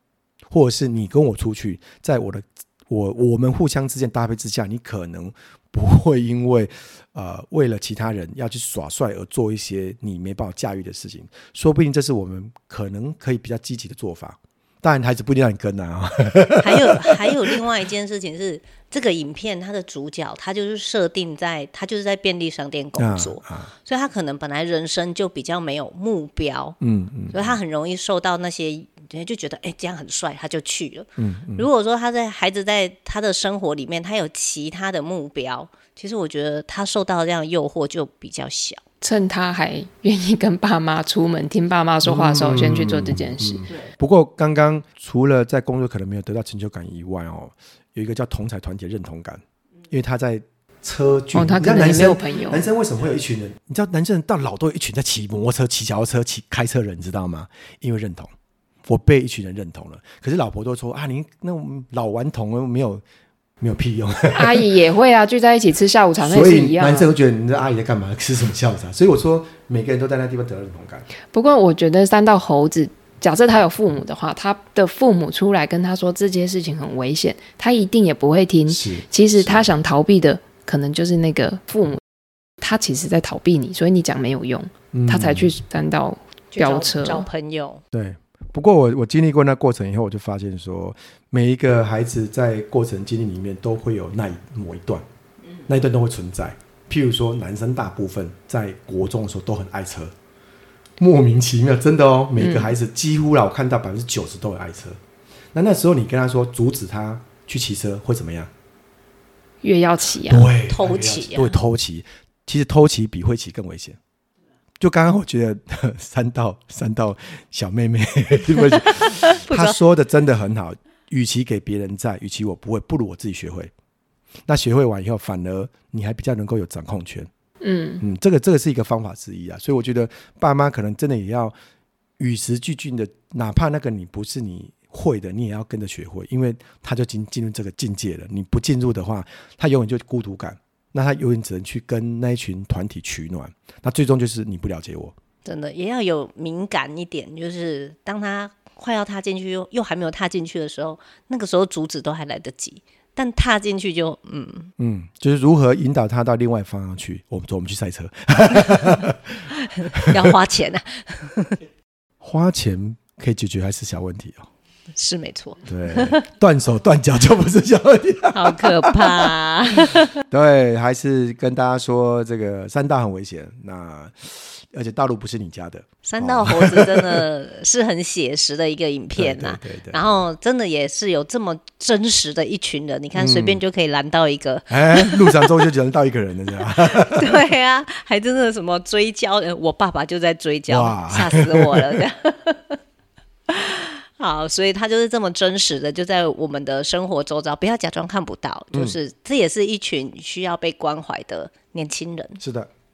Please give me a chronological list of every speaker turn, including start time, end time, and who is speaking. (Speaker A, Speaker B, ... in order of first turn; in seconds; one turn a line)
Speaker A: 0.5-17.6
Speaker B: 16.6-26.8
Speaker A: 23.0-23.7
Speaker A: 26.8-27.6
Speaker B: 27.3-38.8
Speaker A: 31.2-31.7
Speaker C: 39.0-43.7
Speaker A: 42.0-58.3
Speaker C: 51.4-52.6
Speaker A: 58.9-63.0
Speaker A: 63.6-64.7
Speaker C: 64.3-67.1
Speaker A: 66.2-71.1
Speaker C: 71.3-82.0
Speaker A: 78.7-79.6
Speaker C: 82.6-87.3
Speaker A: 84.9-85.5
Speaker B: 86.5-87.8
Speaker A: 87.9-95.0
Speaker A: 95.7-100.1
Speaker A: 101.0-105.0
Speaker C: 102.4-102.7
Speaker A: 105.5-108.5
Speaker C: 109.6-110.5
Speaker A: 110.3-114.0
Speaker B: 110.7-111.6
Speaker A: 114.8-123.7
Speaker B: 119.0-119.8
Speaker A: 124.5-127.3
Speaker C: 127.6-128.0
Speaker A: 128.0-131.6
Speaker A: 132.2-145.2
Speaker B: 145.4-154.7
Speaker A: 154.8-160.3
Speaker B: 159.6-161.6
Speaker A: 162.2-164.5
Speaker B: 165.0-166.2
Speaker A: 165.7-169.3
Speaker B: 168.3-170.2
Speaker A: 170.3-177.3
Speaker B: 176.0-185.5
Speaker A: 179.2-180.2
Speaker A: 183.2-183.6
Speaker A: 184.7-187.3
Speaker B: 187.0-192.8
Speaker A: 190.7-192.0
Speaker B: 193.5-202.4
Speaker A: 202.4-202.7